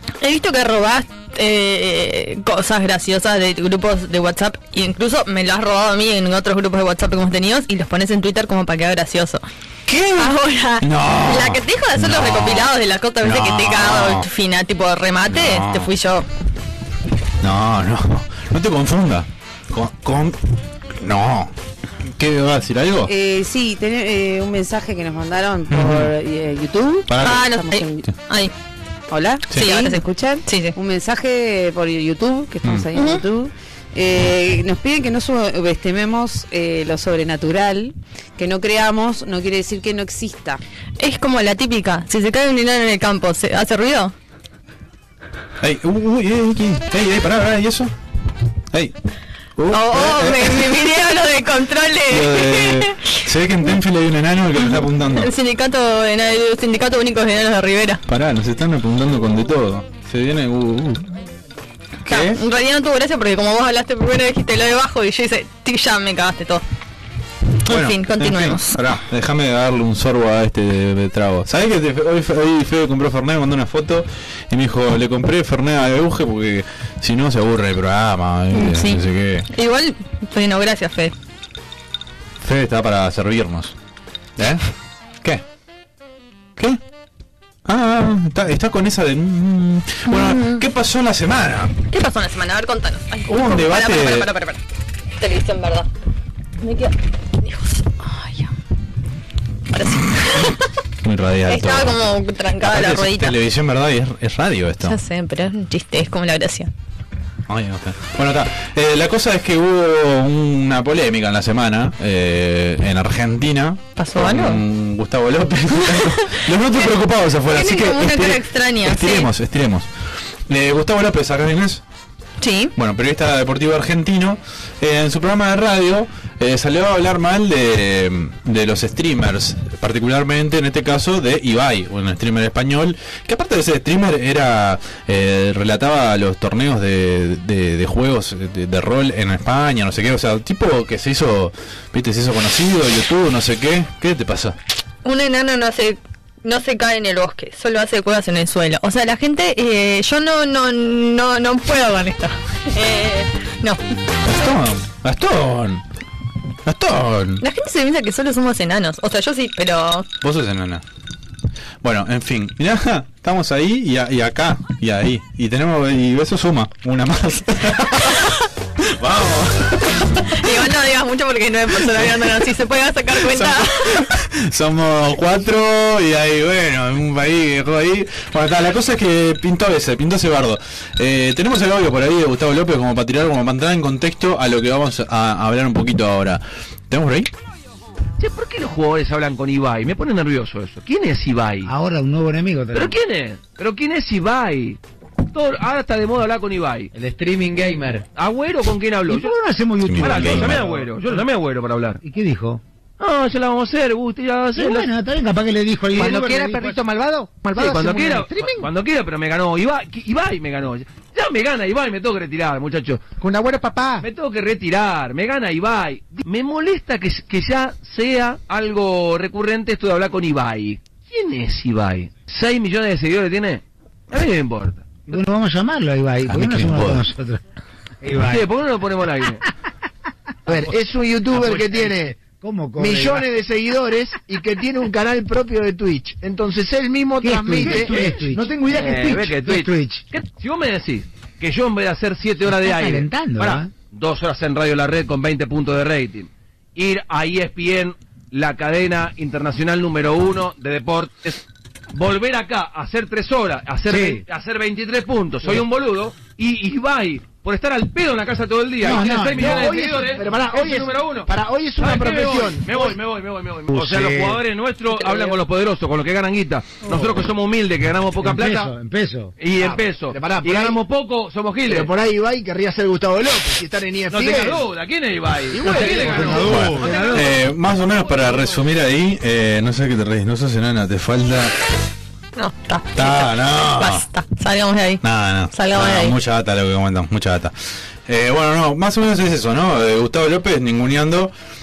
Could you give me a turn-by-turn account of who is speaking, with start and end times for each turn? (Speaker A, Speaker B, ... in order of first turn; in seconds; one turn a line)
Speaker A: 0.2-9.4
Speaker B: 9.9-14.3
Speaker A: 10.1-16.2
Speaker B: 15.3-15.9
Speaker B: 17.4-23.1
Speaker C: 23.1-28.1
Speaker B: 25.7-26.1
Speaker B: 27.1-27.4
Speaker A: 27.2-28.5
Speaker C: 29.1-40.6
Speaker A: 29.5-30.7
Speaker A: 32.9-33.2
Speaker A: 41.0-44.1
Speaker B: 45.6-47.9
Speaker B: 49.6-50.8
Speaker A: 49.7-53.2
Speaker B: 52.1-55.3
Speaker A: 54.6-58.0
Speaker B: 58.1-61.1
Speaker B: 62.0-62.4
Speaker A: 62.1-66.6
Speaker B: 67.6-79.5
Speaker A: 67.7-68.8
Speaker A: 78.5-81.1
Speaker B: 82.4-83.8
Speaker B: 84.4-84.6
Speaker B: 87.6-91.7
Speaker A: 90.1-90.6
Speaker A: 91.9-94.6
Speaker B: 93.3-94.3
Speaker A: 95.2-95.9
Speaker A: 96.6-98.5
Speaker A: 99.7-100.7
Speaker B: 101.0-102.0
Speaker A: 101.5-103.4
Speaker B: 102.6-105.0
Speaker A: 104.8-106.7
Speaker B: 107.5-119.9
Speaker A: 114.0-114.6
Speaker A: 116.0-116.5
Speaker A: 117.5-119.3
Speaker B: 120.5-121.8
Speaker A: 122.4-122.7
Speaker B: 122.7-144.6
Speaker A: 145.0-153.8
Speaker B: 154.2-155.8
Speaker B: 156.6-157.4
Speaker A: 157.4-160.1
Speaker B: 160.2-160.8
Speaker B: 161.8-170.7
Speaker A: 170.2-174.1
Speaker B: 171.8-172.2
Speaker B: 173.1-187.3
Speaker D: 188.2-191.7
Speaker E: 191.6-193.0
Speaker D: 192.7-194.8
Speaker D: 195.3-196.9
Speaker E: 196.9-198.0
Speaker D: 198.2-199.4
Speaker E: 199.1-201.2
Speaker B: 199.8-200.6
Speaker D: 199.9-202.0
Speaker E: 202.0-202.6
Speaker D: 203.0-204.9
Speaker E: 204.5-207.1
Speaker F: 205.9-208.7
Speaker D: 207.5-213.2
Speaker F: 213.2-214.0
Speaker D: 214.0-225.2
Speaker E: 225.1-227.4
Speaker B: 226.2-227.1
Speaker E: 228.0-228.5
Speaker D: 228.2-229.4
Speaker F: 230.5-232.2
Speaker E: 232.2-233.3
Speaker F: 232.8-239.3
Speaker E: 237.2-240.0
Speaker D: 237.5-238.1
Speaker D: 238.6-268.7
Speaker E: 242.5-243.7
Speaker E: 253.9-254.2
Speaker E: 258.8-260.2
Speaker F: 259.3-263.0
Speaker E: 263.7-264.4
Speaker E: 268.2-269.3
Speaker D: 269.4-271.9
Speaker F: 269.5-270.8
Speaker F: 271.6-274.6
Speaker D: 274.1-278.6
Speaker F: 275.5-277.1
Speaker E: 275.6-277.2
Speaker B: 276.5-281.5
Speaker A: 282.4-286.1
Speaker B: 282.9-284.1
Speaker B: 285.0-287.5
Speaker B: 288.1-291.3